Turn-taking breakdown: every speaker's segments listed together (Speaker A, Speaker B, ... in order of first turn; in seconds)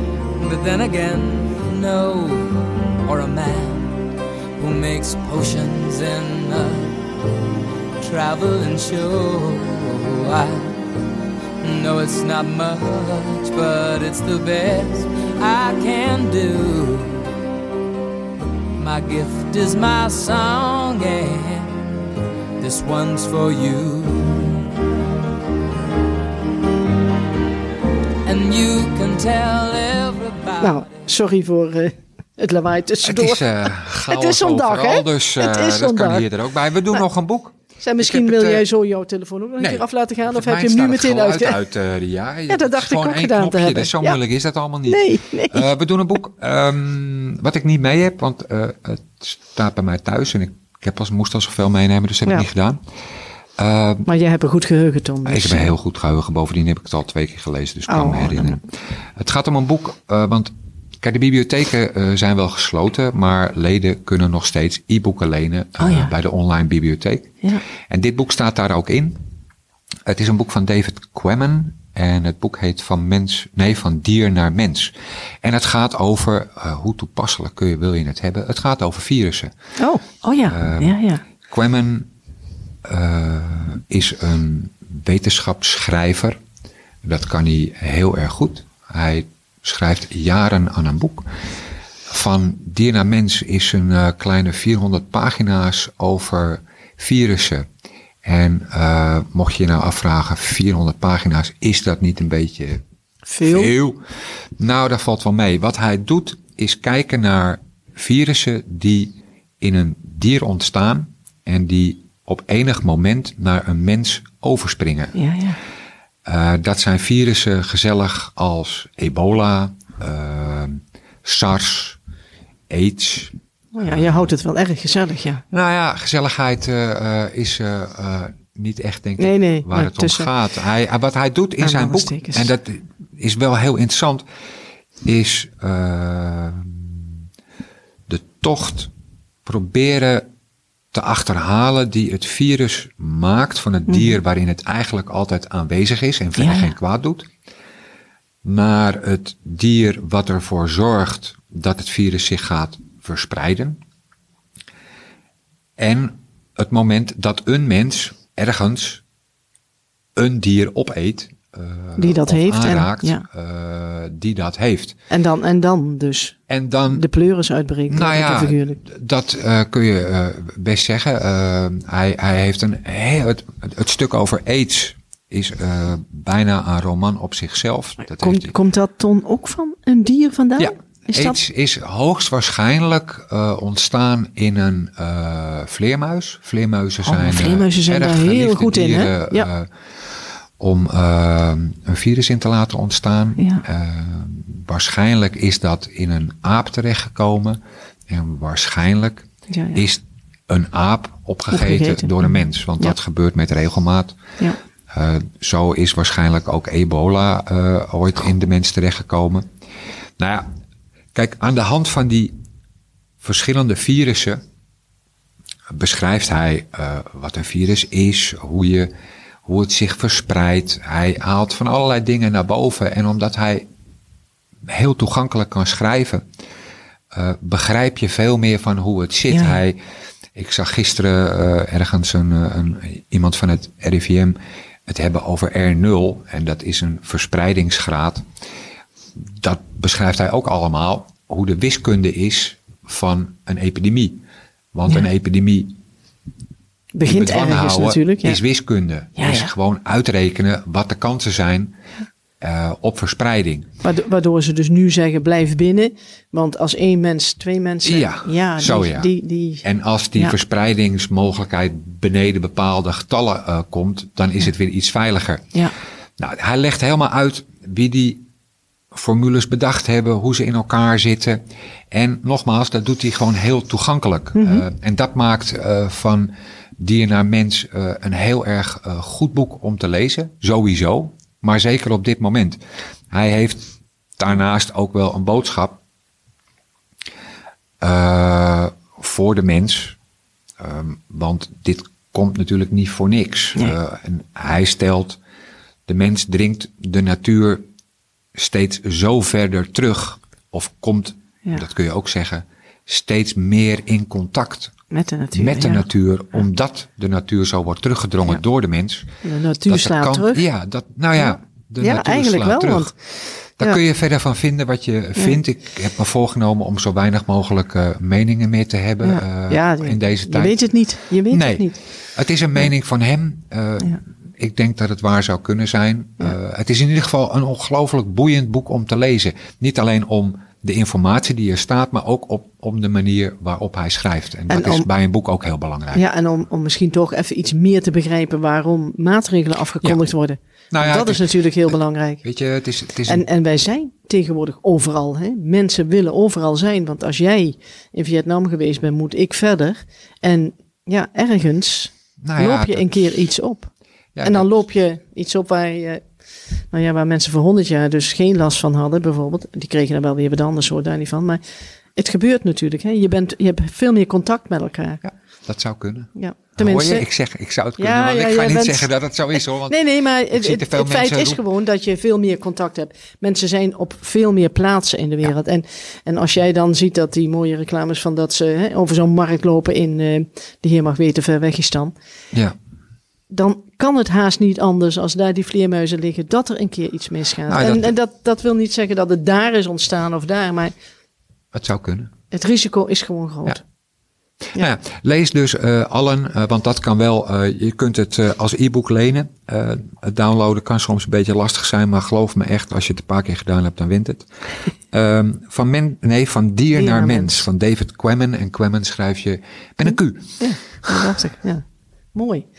Speaker A: 0.4-7.0, 8.0-10.8, 11.6-17.3, 18.8-22.0, 22.6-24.7, 28.2-31.0
Speaker B: 30.6-33.4, 34.1-36.3, 37.8-41.6, 42.5-44.2, 44.9-45.7, 54.0-55.7, 57.9-58.6, 65.8-66.1, 79.8-81.2, 103.2-103.7, 115.1-115.6, 123.7-125.4, 129.2-130.3, 131.6-132.5, 143.9-144.2, 146.4-146.8, 162.0-163.2, 165.1-168.8, 178.1-181.4, 187.0-189.5, 193.4-193.6, 199.5-199.8, 201.5-202.9, 229.3-229.6, 246.9-248.4, 249.2-249.5, 253.8-260.4, 274.3-274.6, 304.9-305.8, 309.2-310.4, 311.2-312.9, 319.0-321.8, 334.5-334.9, 335.9-342.2, 343.1-353.7, 354.2-356.0, 356.7-361.4, 361.9-365.0, 366.1-367.1, 367.8-368.9, 369.7-381.9, 383.3-390.7, 392.3-393.6, 406.7-407.4, 410.4-412.5
Speaker C: 33.0-38.6, 39.6-52.8, 53.6-54.1, 55.2-58.6, 59.2-67.3, 67.9-69.2, 70.0-79.5, 80.5-81.0, 81.5-82.1, 82.8-86.3, 87.0-91.3, 92.1-97.7, 98.2-102.8, 103.4-104.0, 104.6-115.2, 116.2-122.0, 122.7-124.2, 125.5-134.2, 135.0-137.1, 138.1-138.9, 139.4-140.2, 140.9-147.3, 148.4-153.8, 155.8-159.0, 160.2-164.9, 166.5-167.1, 167.9-178.5, 180.6-189.7, 190.6-197.6, 198.1-204.2, 204.9-209.4, 210.2-210.5, 211.1-212.3, 213.2-214.4, 215.7-218.9, 219.4-223.7, 224.7-226.2, 227.1-229.8, 230.3-238.2, 239.4-244.2, 244.7-245.7, 247.0-251.7, 252.4-253.7, 257.8-259.1, 259.6-265.5, 266.2-268.2, 268.9-271.4, 271.9-282.6, 283.1-285.8, 287.8-289.9, 290.6-295.2, 295.9-297.6, 298.4-304.7, 305.3-309.1, 309.6-312.9, 313.6-320.7, 321.3-336.0, 340.7-341.7, 342.2-343.2, 352.2-353.0, 354.1-354.5, 365.0-371.4, 387.4-387.9, 391.5-392.1, 394.5-404.3, 404.9-411.1